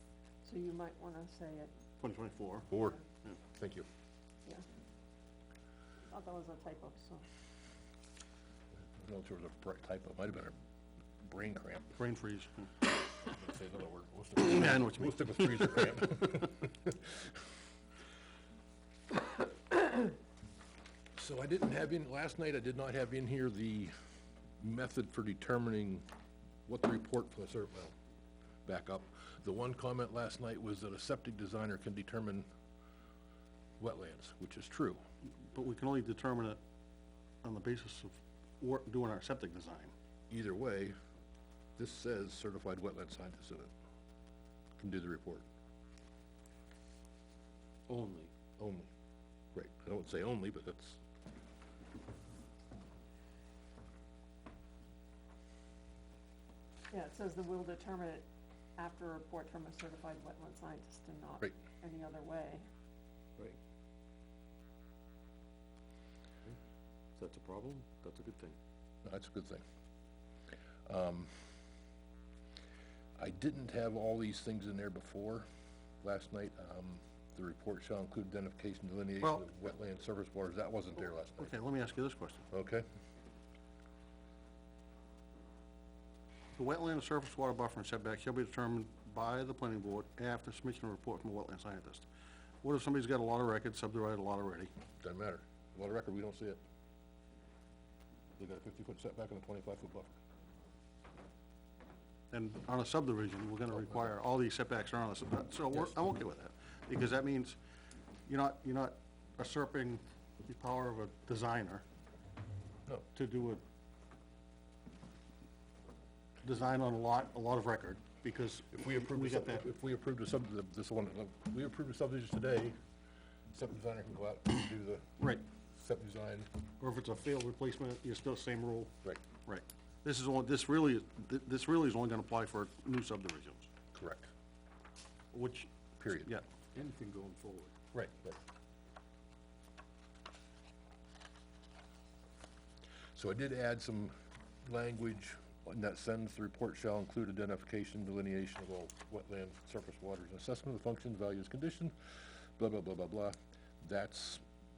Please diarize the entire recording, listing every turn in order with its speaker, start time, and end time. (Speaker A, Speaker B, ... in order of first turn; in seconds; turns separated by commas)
Speaker A: 0.4-1.7, Speaker B: 2.0-2.7, Speaker C: 2.7-3.9, Speaker A: 6.1-7.2, Speaker C: 9.0-10.6, Speaker C: 11.2-11.9, Speaker B: 11.9-12.7, Speaker C: 13.2-17.1, Speaker B: 14.4-16.0, Speaker C: 21.1-23.9, Speaker C: 24.6-26.1, Speaker C: 26.6-27.9, Speaker C: 28.6-32.5, Speaker C: 33.8-35.0, Speaker B: 35.4-36.6, Speaker B: 37.4-39.9, Speaker C: 40.3-41.0, Speaker C: 41.8-43.7, Speaker C: 44.8-45.5, Speaker D: 47.9-48.3, Speaker C: 48.6-48.9, Speaker C: 49.5-51.0, Speaker A: 56.9-62.6, Speaker D: 67.2-68.6, Speaker C: 69.0-69.6, Speaker C: 70.8-71.3, Speaker C: 73.2-75.5, Speaker C: 76.0-81.5, Speaker B: 79.2-79.5, Speaker B: 81.4-82.5, Speaker C: 82.5-82.8, Speaker B: 86.5-92.1, Speaker B: 92.6-94.7, Speaker C: 95.0-96.6, Speaker C: 98.4-100.2, Speaker B: 102.3-107.6, Speaker C: 103.8-104.1, Speaker B: 108.3-111.8, Speaker B: 113.1-113.6, Speaker B: 116.4-119.7, Speaker C: 118.7-122.8, Speaker C: 123.5-125.2, Speaker B: 125.2-125.4, Speaker C: 125.7-126.5, Speaker B: 126.8-128.9, Speaker B: 129.4-133.7, Speaker C: 133.9-134.3, Speaker B: 135.3-135.7, Speaker C: 136.0-136.3, Speaker D: 136.7-137.7, Speaker C: 138.0-138.4, Speaker C: 143.1-151.9, Speaker C: 152.6-154.4